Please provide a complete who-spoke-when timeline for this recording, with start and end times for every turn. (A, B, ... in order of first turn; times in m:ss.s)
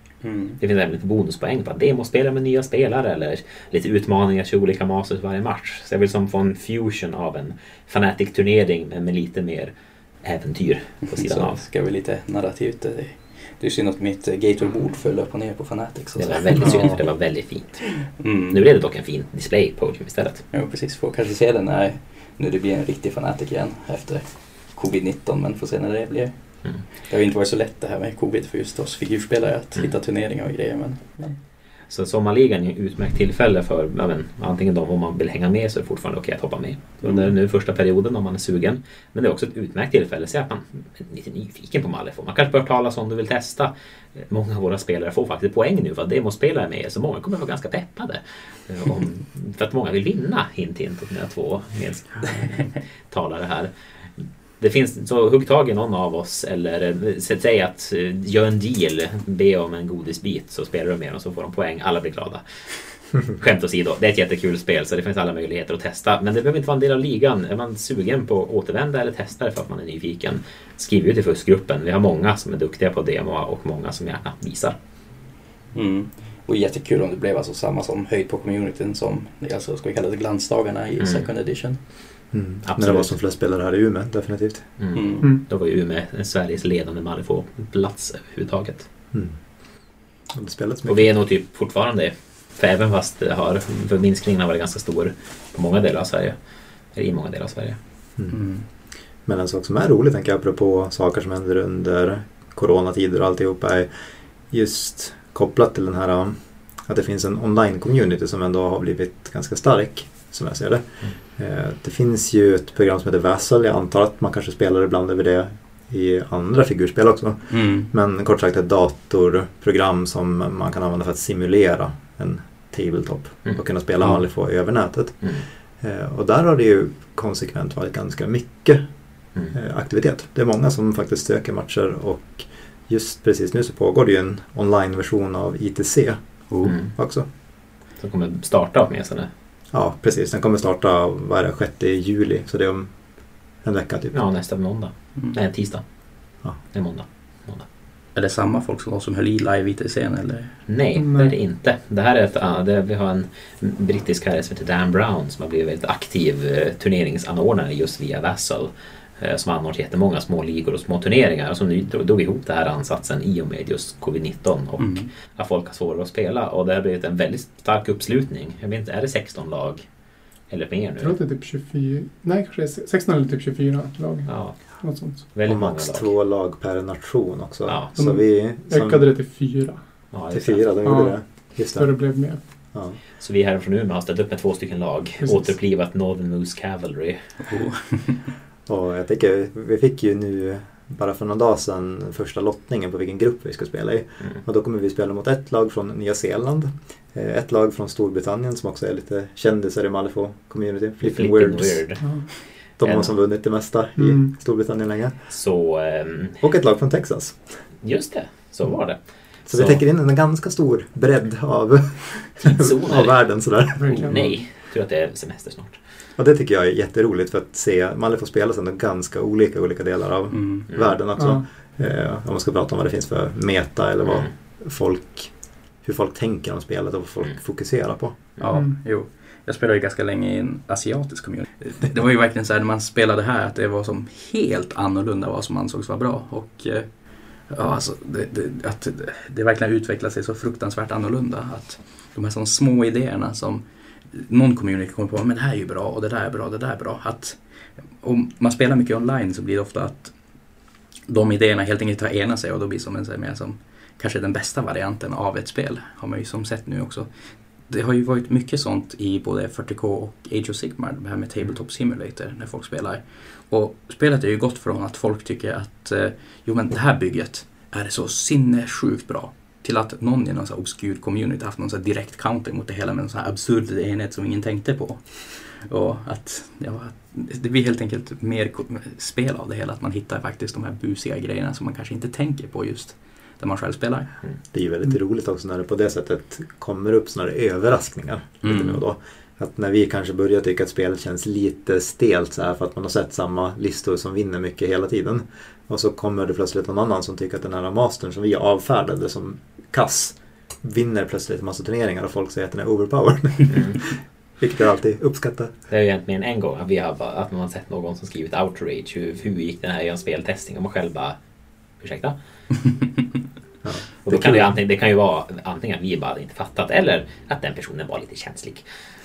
0:00.2-0:00.6 A
0:00.6-0:09.7 B
0:10.2-0:11.6 B
0:11.1-0:17.1 A
0:16.2-0:20.4 B
0:18.2-0:18.6 A
0:20.5-0:26.4 A
0:26.9-0:31.4 A
0:31.9-0:53.7 B
0:54.6-1:02.4 B
1:03.2-1:14.8 B
1:15.7-1:21.8 A
1:22.3-1:24.7 C
1:22.6-1:23.1 B
1:24.8-1:28.9 B
1:24.9-1:25.3 A
1:30.3-1:31.1 C
1:30.9-1:36.3 B
1:36.9-1:37.8 B
1:38.3-1:38.6 A
1:39.2-1:43.9 C
1:44.5-1:50.8 C
1:51.4-2:05.3 C
1:57.5-1:57.9 A
2:05.8-2:08.8 C
2:09.5-2:17.2 C
2:16.6-2:16.9 B
2:18.0-2:19.3 B
2:19.7-2:22.9 C
2:23.6-2:24.1 C
2:24.1-2:25.8 B
2:26.7-2:27.6 B
2:28.1-2:30.6 A
2:30.7-2:49.8 B
2:31.0-2:31.3 D
2:44.8-2:45.1 A
2:50.5-2:51.2 B
2:51.0-2:55.2 D
2:54.2-2:56.1 B
2:55.4-2:59.0 C
2:57.7-2:57.9 B
2:58.0-2:59.8 D
3:00.1-3:00.7 B
3:00.3-3:02.0 C
3:00.8-3:02.4 D
3:03.2-3:07.3 B
3:05.2-3:05.5 D
3:07.4-3:08.3 A
3:08.7-3:21.8 C
3:21.0-3:23.1 B
3:22.8-3:25.1 C
3:24.0-3:24.3 D
3:25.3-3:26.4 B
3:26.4-3:27.6 C
3:27.8-3:29.8 B
3:29.5-3:34.2 C
3:32.4-3:33.2 B
3:33.8-3:34.3 D
3:33.9-3:35.8 B
3:36.2-3:48.2 C
3:40.3-3:40.7 A
3:41.2-3:41.4 D
3:48.4-3:56.9 A
3:48.5-3:48.7 D
3:57.4-4:07.4 A
4:08.0-4:10.1 A
4:11.1-4:17.1 A
4:17.7-4:44.1 A
4:44.5-5:05.5 C
4:48.4-4:48.8 A
5:03.5-5:03.8 B
5:05.7-5:11.2 B
5:11.8-5:12.2 B
5:13.6-5:14.4 C
5:14.0-5:18.6 B